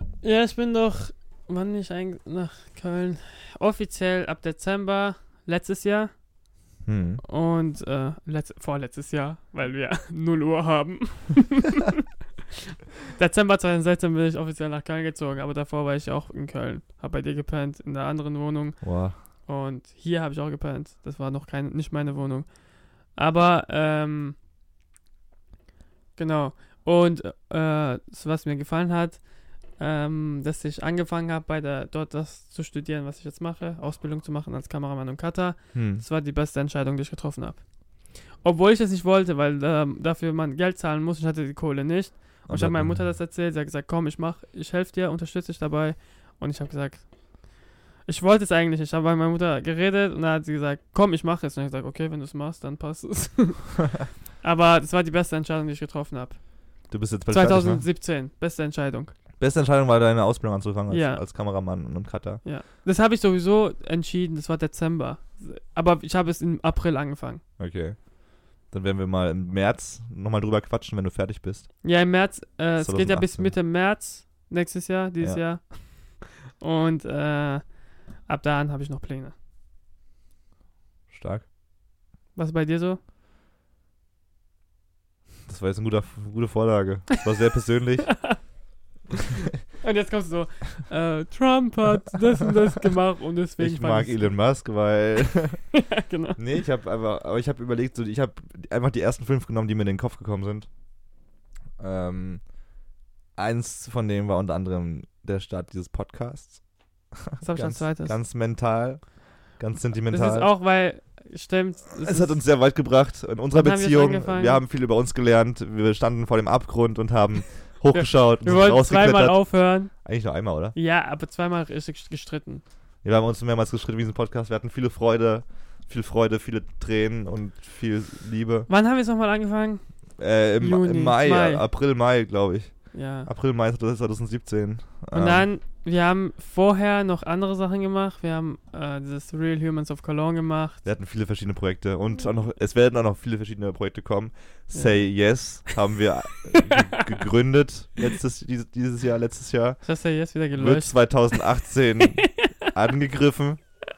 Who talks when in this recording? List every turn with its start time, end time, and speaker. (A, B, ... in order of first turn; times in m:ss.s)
0:00.2-0:06.1 A
0:06.8-0:07.2 B
0:07.2-0:12.0 A
0:13.1-0:18.9 A
0:18.8-0:19.2 B
0:19.4-0:22.5 A
0:23.1-0:24.4 A
0:26.2-0:29.2 A
0:29.8-0:37.6 A
0:35.7-0:36.0 B
0:38.3-0:47.5 A
0:42.5-0:43.1 B
0:48.0-0:53.8 A
0:54.4-0:56.4 A
0:56.9-0:57.8 B
0:57.3-0:59.1 A
0:59.4-1:02.4 B
1:00.9-1:01.2 A
1:02.4-1:07.4 A
1:07.6-1:08.0 B
1:08.7-1:11.7 B
1:11.8-1:17.6 A
1:12.8-1:13.5 B
1:18.2-1:19.3 A
1:21.1-1:21.5 B
1:22.4-1:23.0 A
1:25.5-1:28.2 B
1:29.8-1:34.3 A
1:33.6-1:35.6 B
1:35.7-1:36.4 A
1:36.4-1:40.7 B
1:41.8-1:42.4 B
1:43.4-1:46.6 B
1:47.1-1:50.5 B
1:47.4-1:48.2 A
1:50.1-1:52.4 A
1:52.0-2:00.7 B
1:53.5-1:54.6 A
1:57.9-1:59.9 A
2:00.7-2:02.6 A
2:03.0-2:08.7 B
2:08.7-2:09.8 A
2:10.2-2:15.4 B
2:10.6-2:11.6 A
2:12.9-2:13.3 A
2:15.1-2:20.8 A
2:20.8-2:29.8 B
2:24.7-2:25.1 A
2:26.6-2:27.0 A
2:29.8-2:31.4 A
2:30.5-2:33.6 B
2:32.0-2:32.7 A